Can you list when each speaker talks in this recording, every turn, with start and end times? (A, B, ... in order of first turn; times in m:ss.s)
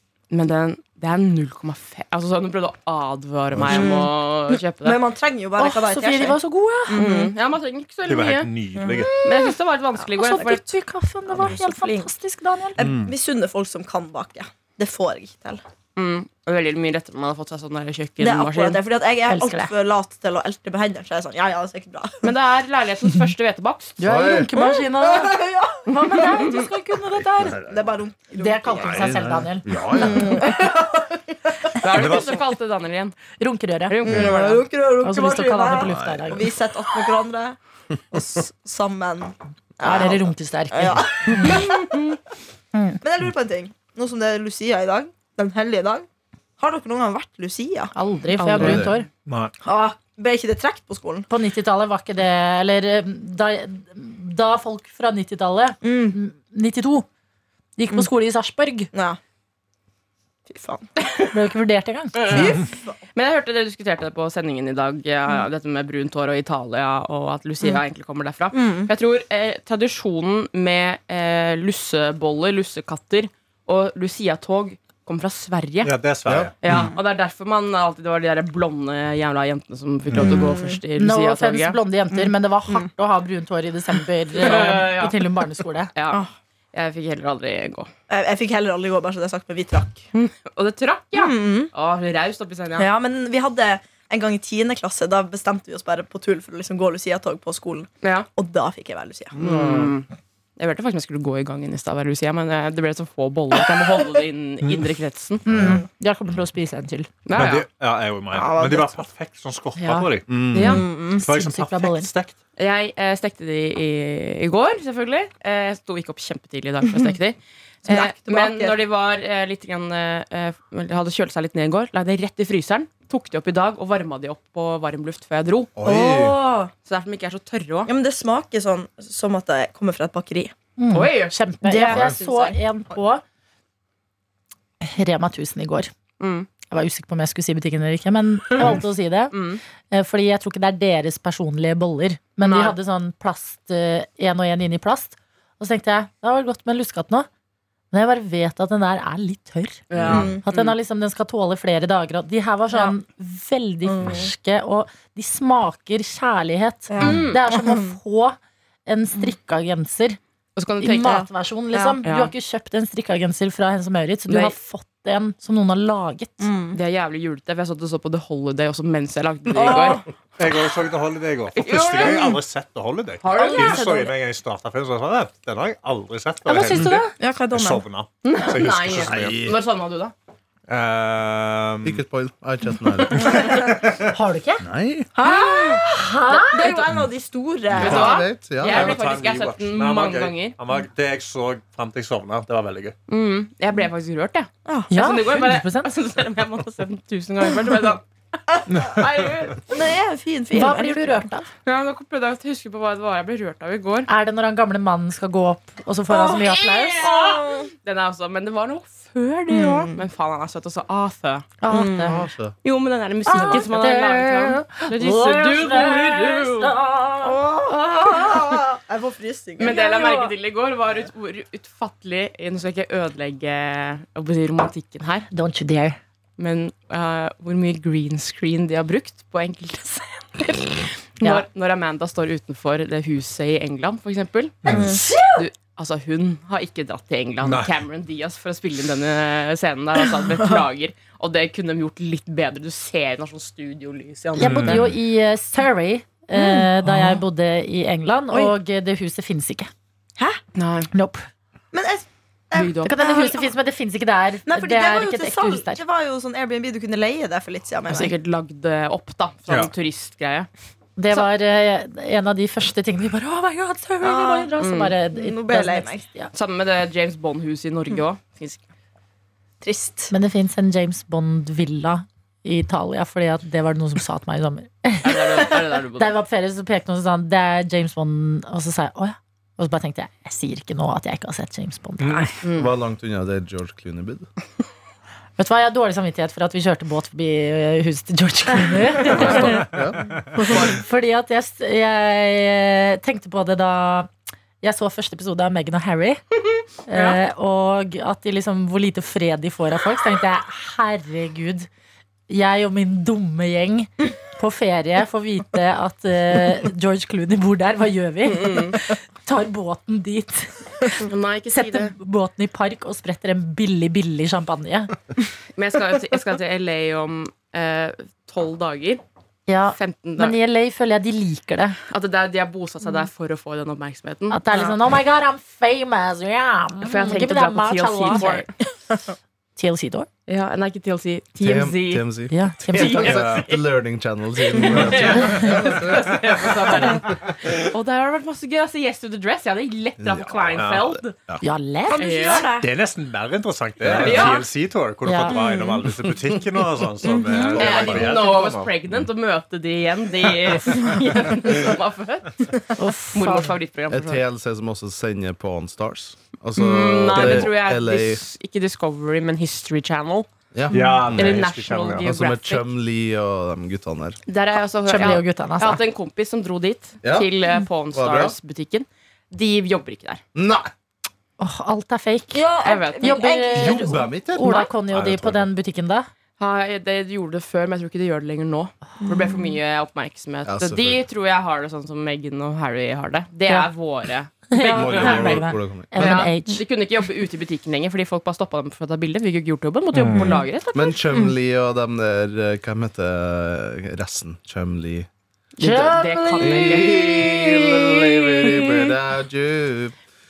0:00.3-0:05.0 A
0:03.5-0:04.0 B
0:03.7-0:06.4 C
0:05.6-0:07.2 D
0:06.9-0:07.3 C
0:06.9-0:08.5 A
0:08.1-0:09.3 E
0:08.8-0:09.5 C
0:09.2-0:10.7 A
0:10.2-0:12.8 D
0:11.3-0:12.1 C
0:12.8-0:15.6 C
0:12.8-0:13.1 B
0:16.0-0:18.8 A
0:18.2-0:22.3 C
0:19.3-0:19.7 D
0:22.2-0:24.0 A
0:24.0-0:27.6 D
0:24.0-0:24.5 B
0:24.6-0:26.6 C
0:26.4-0:26.7 A
0:27.7-0:29.2 C
0:28.3-0:30.4 D
0:28.9-0:30.4 B
0:29.9-0:32.2 C
0:31.8-0:33.2 A
0:31.9-0:32.4 E
0:33.4-0:34.2 D
0:33.9-0:34.6 A
0:34.1-0:37.6 C
0:35.0-0:36.5 D
0:35.8-0:36.4 B
0:38.1-0:42.2 C
0:39.8-0:41.6 D
0:42.7-0:43.0 D
0:43.0-0:46.1 C
0:46.6-0:47.9 C
0:48.0-0:49.1 D
0:48.4-0:48.8 A
0:48.6-0:48.9 B
0:48.6-0:49.5 E
0:49.6-0:51.3 C
0:51.3-0:57.1 D
0:55.8-0:56.2 C
0:57.8-0:58.9 D
0:58.9-0:59.2 C
1:00.5-1:00.9 C
1:01.0-1:01.4 A
1:01.3-1:02.5 D
1:02.1-1:15.9 A
1:02.3-1:02.6 B
1:02.3-1:03.0 C
1:08.5-1:08.9 C
1:15.8-1:16.8 E
1:16.3-1:16.5 B
1:16.6-1:21.8 A
1:20.1-1:20.8 C
1:21.0-1:25.9 D
1:22.1-1:22.9 C
1:24.4-1:25.2 A
1:26.0-1:27.9 A
1:28.1-1:30.0 C
1:30.1-1:32.9 A
1:31.1-1:31.7 C
1:32.8-1:39.4 C
1:38.0-1:38.3 A
1:39.4-1:45.5 A
1:45.5-1:47.1 D
1:45.5-1:45.8 B
1:47.3-1:47.7 A
1:47.3-1:50.3 E
1:48.3-1:49.1 C
1:49.8-1:52.1 D
1:50.3-1:50.8 B
1:50.5-1:50.8 A
1:50.6-1:51.2 C
1:51.2-1:52.4 E
1:52.6-2:05.7 A
1:57.8-1:58.8 C
2:05.8-2:06.4 B
2:05.8-2:06.7 C
2:06.8-2:07.9 A
2:07.9-2:10.6 C
2:10.8-2:13.2 D
2:10.9-2:11.3 A
2:11.6-2:12.6 C
2:14.8-2:15.9 D
2:16.2-2:16.5 A
2:16.6-2:19.4 D
2:19.3-2:19.6 A
2:19.9-2:27.3 D
2:22.4-2:22.8 A
2:27.9-2:40.2 D
2:29.9-2:30.8 A
2:30.0-2:30.3 B
2:30.1-2:30.5 C
2:33.9-2:34.3 C
2:36.9-2:37.9 C
2:37.0-2:37.4 A
2:40.6-2:41.3 A
2:40.8-2:46.5 D
2:41.0-2:42.0 C
2:42.0-2:42.3 A
2:44.3-2:44.6 A
2:46.4-2:46.8 C
2:46.7-2:50.1 A
2:49.5-2:50.0 C
2:50.4-2:59.4 E
2:51.5-2:52.4 A
2:53.2-2:54.1 A
2:53.4-2:53.8 D
2:56.5-2:57.2 D
2:57.2-2:57.8 C
2:58.2-3:00.1 A
2:58.9-2:59.6 B
3:00.7-3:02.0 E
3:01.8-3:03.6 B
3:03.1-3:03.4 A
3:04.1-3:04.6 D
3:04.6-3:05.1 B
3:05.2-3:08.2 C
3:05.2-3:06.8 D
3:05.3-3:05.6 A
3:06.6-3:06.8 A
3:07.7-3:09.0 B
3:07.8-3:10.6 A
3:08.6-3:13.0 E
3:13.1-3:18.0 A
3:14.7-3:14.9 C
3:14.9-3:16.0 D
3:18.7-3:19.0 E
3:18.8-3:19.8 A
3:19.7-3:21.3 C
3:20.5-3:21.5 D
3:21.7-3:24.1 A
3:24.1-3:27.2 D
3:26.1-3:31.5 A
3:26.2-3:26.5 C
3:27.0-3:27.7 C
3:29.5-3:30.0 C
3:31.6-3:32.2 D
3:31.7-3:32.2 C
3:32.0-3:32.5 B
3:32.6-3:36.7 A
3:33.3-3:38.6 D
3:33.3-3:33.6 C
3:37.2-3:39.9 C
3:39.6-3:45.3 A
3:39.7-3:40.3 D
3:45.3-3:46.0 D
3:46.4-3:54.8 A
3:54.6-3:54.9 E
3:54.7-3:55.2 C
3:54.7-3:55.4 D
3:55.4-4:04.9 A
3:57.4-3:57.7 E
4:04.4-4:09.7 D
4:04.4-4:04.8 E
4:06.3-4:06.7 C
4:10.6-4:10.9 A
4:10.9-4:11.3 D
4:11.7-4:13.5 C
4:12.5-4:13.0 A
4:12.8-4:15.8 D
4:14.5-4:18.1 C
4:17.9-4:20.5 A
4:21.0-4:26.3 D
4:24.0-4:24.5 C
4:24.6-4:25.0 A
4:25.1-4:26.1 C
4:26.3-4:28.7 A
4:29.6-4:30.1 C
4:30.1-4:42.4 D
4:35.0-4:36.1 A
4:42.0-4:42.3 E
4:42.4-4:42.7 A
4:42.5-4:44.3 B
4:45.4-4:49.7 D
4:49.1-4:50.8 B
4:49.4-4:49.8 E
4:50.4-4:54.1 D
4:54.6-4:56.2 D
4:56.9-5:01.7 D
4:56.9-4:57.2 A
5:02.3-5:15.0 D
5:08.2-5:08.8 A
5:11.0-5:12.0 A
5:15.6-5:19.0 A
5:19.5-5:21.8 D
5:19.7-5:20.4 A
5:21.9-5:24.4 A
5:24.3-5:28.5 D
5:26.8-5:28.5 A
5:29.6-5:30.1 D
5:30.3-5:32.1 A
5:31.4-5:36.1 B
5:32.3-5:33.3 D
5:32.7-5:33.6 A
5:33.0-5:33.4 E
5:34.4-5:41.2 A
5:34.8-5:36.9 E
5:35.2-5:35.7 D
5:40.0-5:41.4 B
5:41.4-5:42.4 D
5:41.9-5:42.7 C
5:42.0-5:42.5 A
5:42.6-5:48.7 E
5:43.8-5:44.3 B
5:43.9-5:44.5 A
5:45.0-5:45.4 D
5:45.3-5:45.8 C
5:45.8-5:46.4 B
5:47.3-5:47.6 C
5:47.4-5:48.2 B
5:47.6-5:52.6 A
5:52.8-5:53.6 D
5:53.1-5:54.2 A
5:53.9-5:58.2 B
5:56.6-6:00.3 A
5:57.2-5:57.5 E
6:00.5-6:01.5 B
6:00.7-6:02.0 E
6:01.1-6:02.7 A
6:02.0-6:04.2 B
6:04.3-6:10.2 A
6:04.9-6:05.8 D
6:07.0-6:07.3 B
6:07.9-6:08.4 B
6:10.3-6:10.7 B
6:11.4-6:16.1 D
6:12.3-6:14.6 C
6:12.6-6:13.2 A
6:13.5-6:14.5 B
6:14.9-6:15.5 E
6:16.4-6:31.0 A
6:19.0-6:19.4 C
6:20.4-6:21.0 B
6:24.5-6:26.6 D
6:24.6-6:26.0 B
6:30.0-6:30.3 E
6:30.1-6:30.4 D
6:30.7-6:35.1 B
6:35.6-6:37.2 A
6:35.6-6:38.7 D
6:36.4-6:40.0 B